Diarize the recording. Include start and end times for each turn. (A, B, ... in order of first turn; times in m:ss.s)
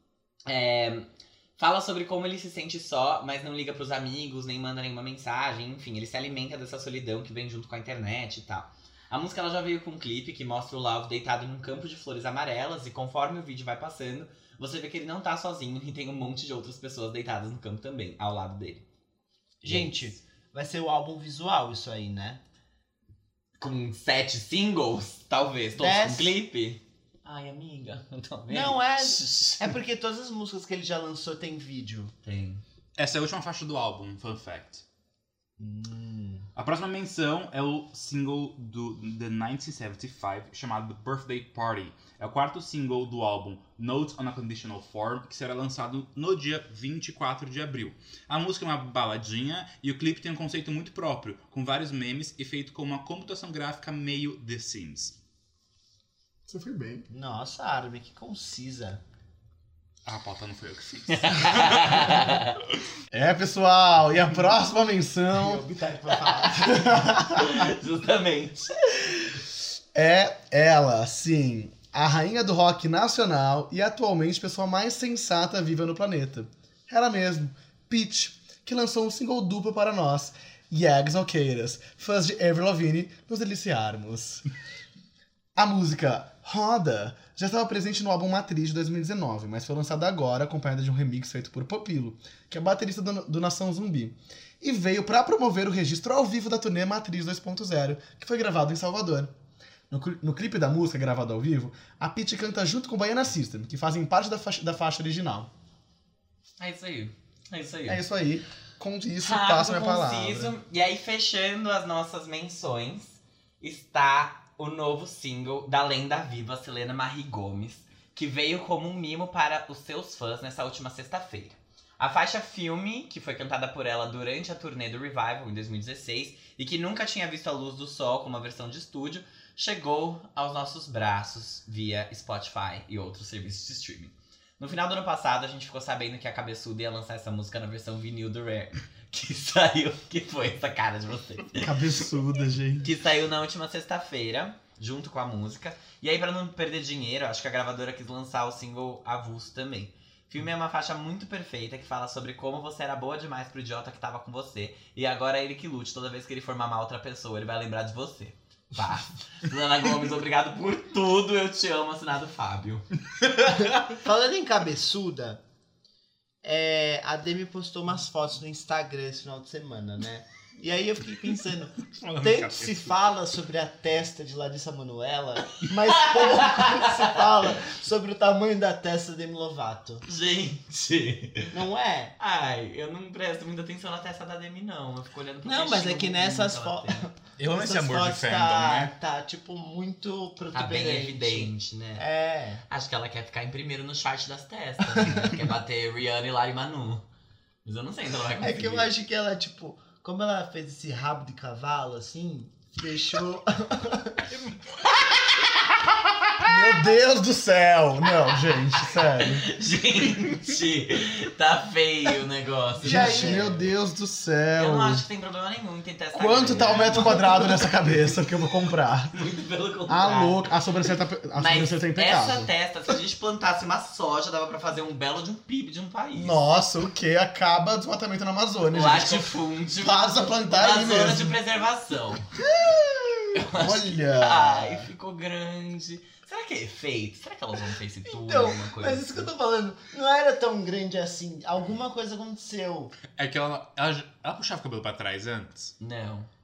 0:00.5-0:18.8 A
0:19.6-0:22.4 B
0:19.6-0:20.1 A
0:23.6-0:29.8 A
0:25.8-0:26.4 B
0:28.5-0:32.1 B
0:32.2-0:32.6 A
0:33.0-0:34.8 C
0:35.6-0:36.4 B
0:36.6-0:55.2 C
0:56.5-0:57.1 D
0:57.1-0:59.0 B
1:00.0-1:02.2 C
1:01.1-1:02.5 A
1:03.1-1:05.6 D
1:05.3-1:07.1 B
1:06.6-1:07.6 D
1:07.3-1:09.4 A
1:09.9-1:24.4 D
1:25.5-1:39.3 D
1:39.9-1:45.5 D
1:46.6-1:48.0 A
1:47.9-1:50.5 D
1:49.2-2:21.8 A
2:21.6-2:22.9 D
2:22.8-2:42.9 A
2:43.8-2:45.4 B
2:46.4-3:00.0 B
2:51.9-2:52.9 C
2:56.1-2:57.0 A
3:00.0-3:01.6 A
3:01.5-3:02.1 B
3:02.2-3:07.1 A
3:05.4-3:12.6 B
3:07.4-3:08.9 C
3:10.5-3:12.0 A
3:12.7-3:17.0 A
3:15.0-3:15.3 B
3:17.6-3:18.9 A
3:18.4-3:24.3 B
3:26.4-3:26.9 B
3:26.4-3:29.5 D
3:28.4-3:33.7 A
3:32.8-3:33.5 B
3:32.8-3:35.0 D
3:34.5-3:38.6 A
3:36.1-3:39.1 D
3:39.1-3:40.6 A
3:39.9-3:42.5 D
3:41.4-3:46.4 A
3:46.1-3:51.4 D
3:48.7-3:52.3 A
3:52.5-3:54.9 D
3:53.3-3:59.3 A
3:58.1-4:02.9 B
4:03.2-4:05.7 C
4:05.8-4:06.3 A